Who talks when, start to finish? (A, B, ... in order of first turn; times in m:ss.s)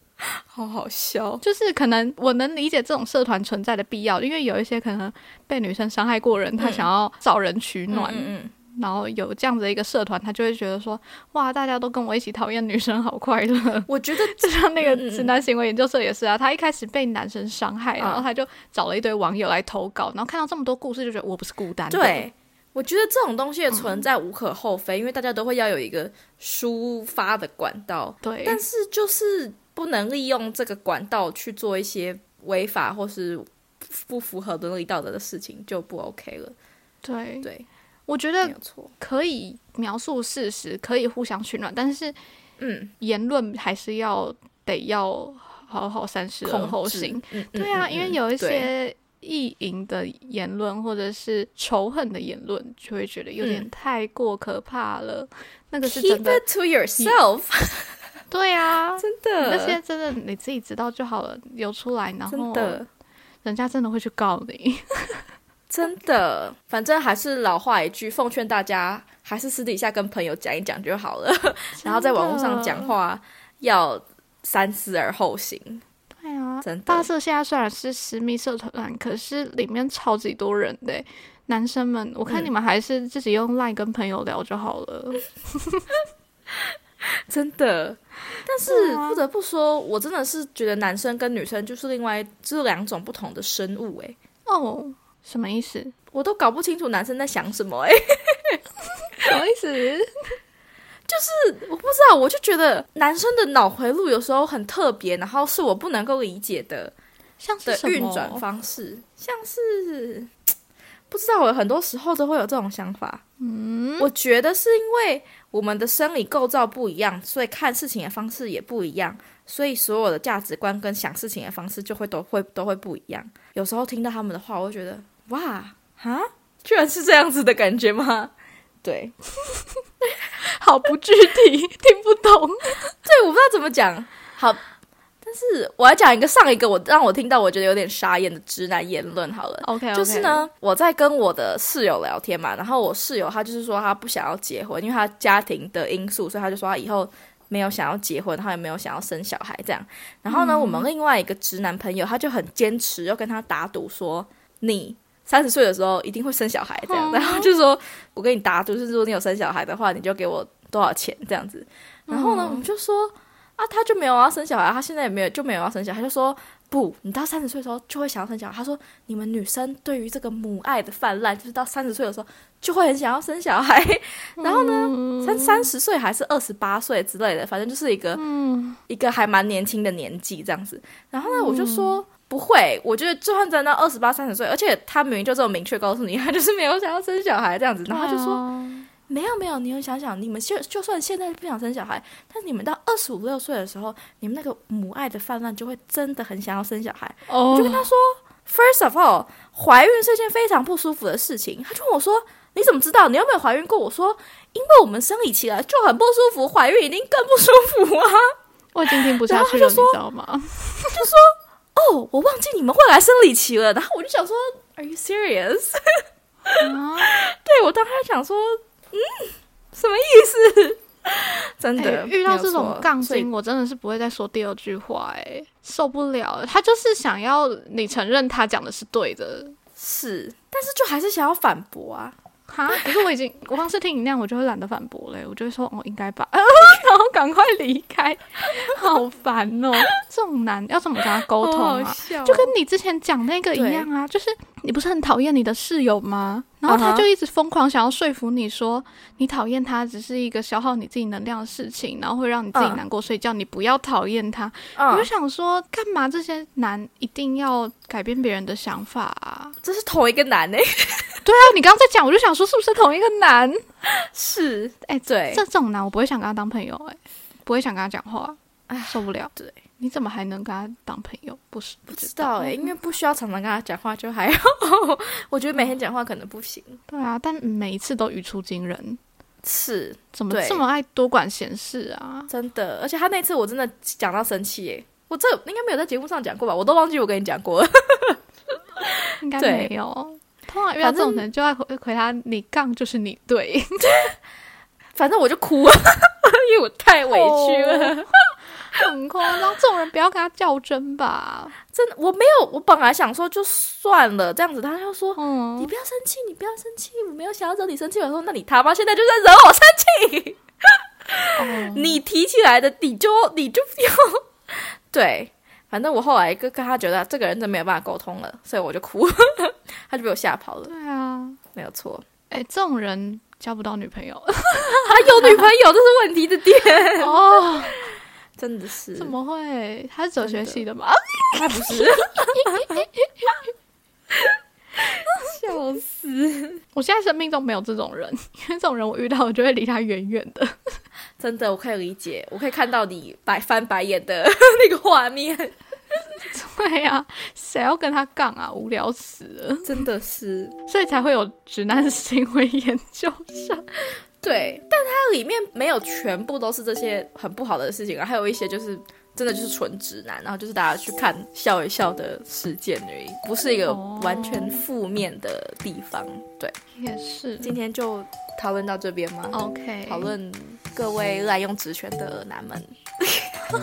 0:00.2-0:01.4 A
0:01.4-0:22.2 B
0:06.6-0:06.9 A
0:07.9-0:08.5 A
0:13.9-0:15.3 A
0:18.0-0:18.3 A
0:21.9-0:36.5 A
0:23.7-0:24.0 B
0:28.2-0:28.6 B
0:37.0-0:37.5 B
0:38.1-0:42.1 B
0:38.4-0:38.9 A
0:42.6-0:42.9 A
0:43.0-0:56.4 B
0:46.4-0:48.7 A
0:53.4-0:53.7 A
0:55.8-0:57.9 A
0:58.3-1:02.8 B
0:59.0-0:59.8 A
1:02.3-1:02.9 A
1:03.4-1:05.2 B
1:05.7-1:15.8 A
1:11.8-1:12.9 B
1:16.2-1:25.9 B
1:16.6-1:17.1 A
1:26.6-1:34.2 A
1:28.6-1:29.2 B
1:34.4-1:35.9 B
1:36.1-1:38.6 A
1:39.2-1:40.1 B
1:41.1-1:46.9 A
1:47.4-1:48.4 B
1:47.6-1:50.3 A
1:51.1-1:53.2 A
1:53.4-1:54.1 B
1:54.0-2:08.3 A
2:08.8-2:09.1 A
2:10.4-2:12.9 B
2:13.0-2:14.6 A
2:15.2-2:58.2 A
2:19.6-2:20.4 B
2:30.3-2:30.8 B
2:36.8-2:37.5 B
2:42.1-2:42.7 B
2:54.4-2:55.7 B
2:58.1-2:58.8 B
2:58.9-3:08.4 A
3:01.2-3:02.0 B
3:07.9-3:08.9 B
3:09.1-3:28.3 A
3:17.3-3:17.9 B
3:28.7-3:31.0 B
3:28.9-3:30.0 A
3:30.9-3:43.3 A
3:36.6-3:37.1 B
3:41.8-3:49.6 B
3:49.8-3:52.2 A
3:52.5-4:19.6 B
4:01.3-4:02.5 A
4:03.5-4:03.9 A
4:06.7-4:07.1 A
4:12.5-4:12.8 A
4:14.8-4:15.1 A
4:19.6-4:21.2 A
4:21.2-4:23.6 B
4:23.8-4:25.4 A
4:24.8-4:28.4 B
4:28.7-4:29.6 A
4:28.9-4:32.7 B
4:31.9-4:36.8 A
4:36.9-4:39.0 B
4:39.4-4:40.6 A
4:40.1-4:42.3 B
4:42.3-4:48.2 A
4:48.8-4:49.7 A
4:49.2-4:54.1 B
4:50.8-4:51.3 A
4:54.9-4:58.1 A
4:57.0-4:58.0 B
4:58.7-5:01.6 B
5:01.7-5:20.7 A
5:05.2-5:05.7 B
5:11.3-5:12.0 B
5:20.7-5:21.4 B
5:21.5-5:22.0 A
5:22.3-5:25.5 B
5:24.8-5:27.5 A
5:27.0-5:27.8 B
5:28.4-5:29.1 A
5:29.0-5:33.4 B
5:30.2-5:30.6 A
5:31.3-5:32.8 A
5:34.1-5:36.6 A
5:36.7-5:40.6 B
5:41.2-5:45.5 A
5:46.2-5:49.8 B
5:49.6-5:50.5 A
5:50.7-5:53.6 B
5:54.2-6:06.5 A
6:03.7-6:04.6 B
6:06.7-6:07.5 B
6:07.4-6:13.5 A
6:09.3-6:10.1 B